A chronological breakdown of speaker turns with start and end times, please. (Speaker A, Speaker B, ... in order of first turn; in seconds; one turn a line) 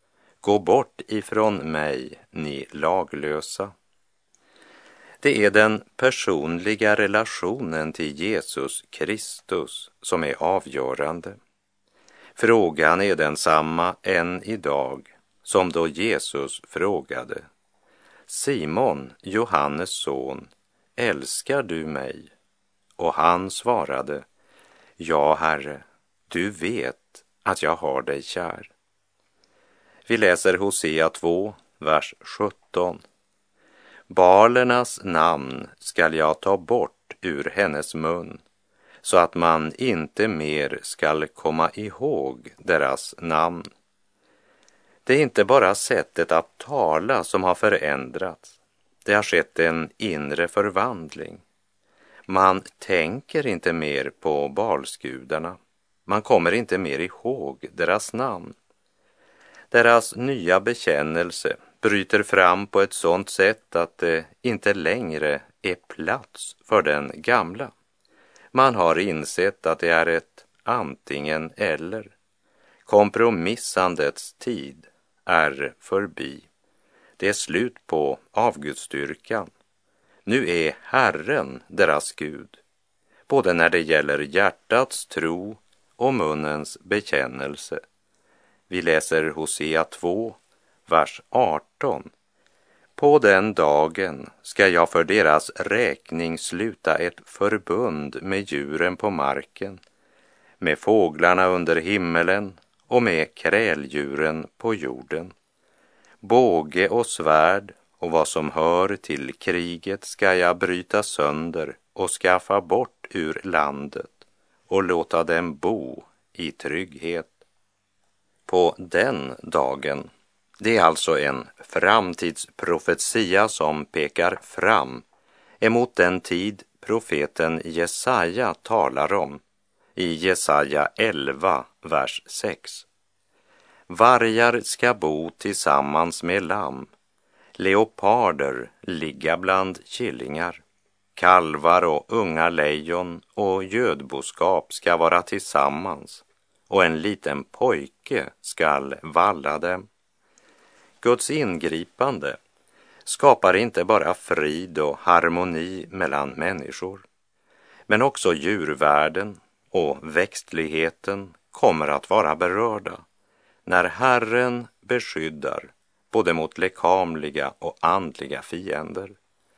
Speaker A: 0.4-3.7
Speaker A: 5.2-11.4
Speaker A: 12.4-17.5
Speaker A: 18.3-22.3
Speaker A: 23.0-24.3
Speaker A: 25.0-28.7
Speaker A: 30.1-33.0
Speaker A: 34.1-38.4
Speaker A: 39.0-43.7
Speaker A: 45.1-51.4
Speaker A: 52.3-58.5
Speaker A: 59.7-67.7
Speaker A: 68.5-72.2
Speaker A: 72.9-76.5
Speaker A: 77.2-79.5
Speaker A: 80.2-82.6
Speaker A: 83.3-87.8
Speaker A: 88.7-92.1
Speaker A: 93.0-99.8
Speaker A: 100.6-105.3
Speaker A: 106.2-117.4
Speaker A: 118.5-125.0
Speaker A: 125.6-129.4
Speaker A: 130.0-132.9
Speaker A: 133.9-136.9
Speaker A: 137.6-140.6
Speaker A: 141.2-149.8
Speaker A: 151.0-152.4
Speaker A: 153.1-157.1
Speaker A: 157.9-163.0
Speaker A: 163.7-169.2